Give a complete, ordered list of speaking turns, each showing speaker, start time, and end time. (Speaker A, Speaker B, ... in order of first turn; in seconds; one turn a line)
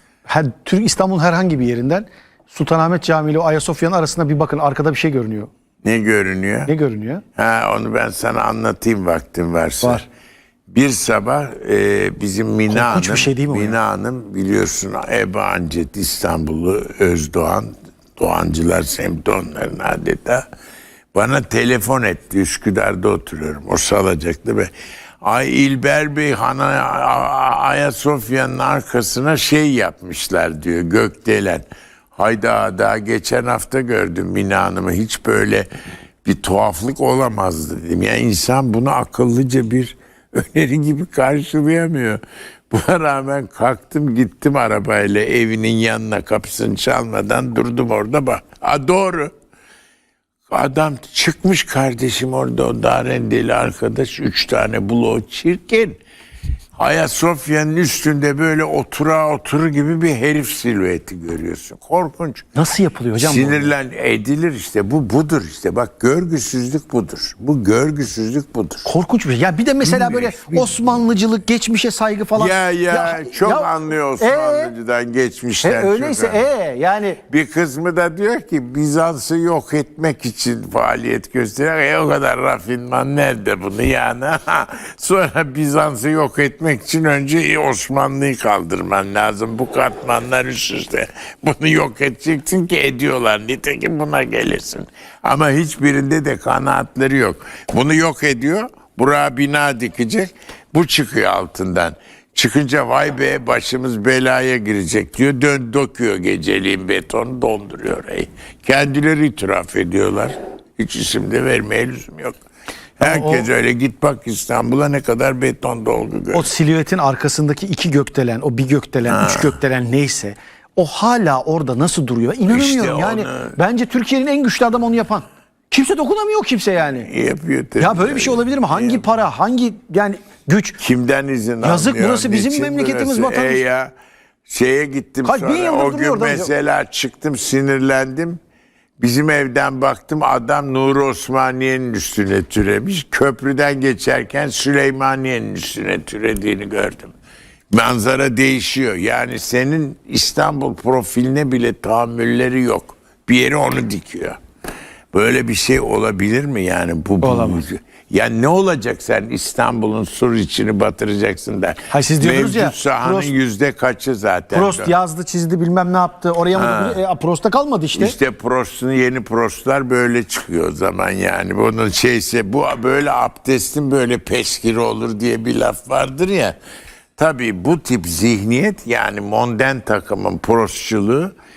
Speaker A: 0.3-5.5
Speaker B: 5.8-6.7
Speaker A: 6.7-7.2
Speaker B: 7.4-10.1
Speaker B: 10.7-20.4
Speaker A: 12.7-13.8
Speaker B: 21.1-24.7
Speaker B: 25.2-35.7
Speaker B: 36.2-49.3
Speaker B: 50.5-56.0
Speaker B: 56.8-62.5
Speaker A: 62.5-63.7
Speaker B: 63.2-68.9
Speaker A: 68.8-74.7
Speaker B: 69.8-71.1
Speaker B: 72.4-76.5
Speaker A: 75.6-77.2
Speaker B: 77.3-112.4
Speaker B: 113.0-116.5
Speaker A: 113.0-113.5
Speaker A: 116.3-127.1
Speaker B: 119.0-119.6
Speaker B: 122.5-123.6
Speaker B: 126.9-129.1
Speaker A: 127.8-130.8
Speaker B: 130.8-133.9
Speaker A: 131.6-133.6
Speaker B: 134.5-138.4
Speaker A: 135.2-136.5
Speaker B: 139.0-147.1
Speaker B: 147.7-154.4
Speaker B: 155.1-164.9
Speaker A: 157.2-157.6
Speaker A: 161.9-163.3
Speaker A: 164.5-168.2
Speaker B: 166.6-167.0
Speaker B: 168.0-176.6
Speaker B: 177.2-181.3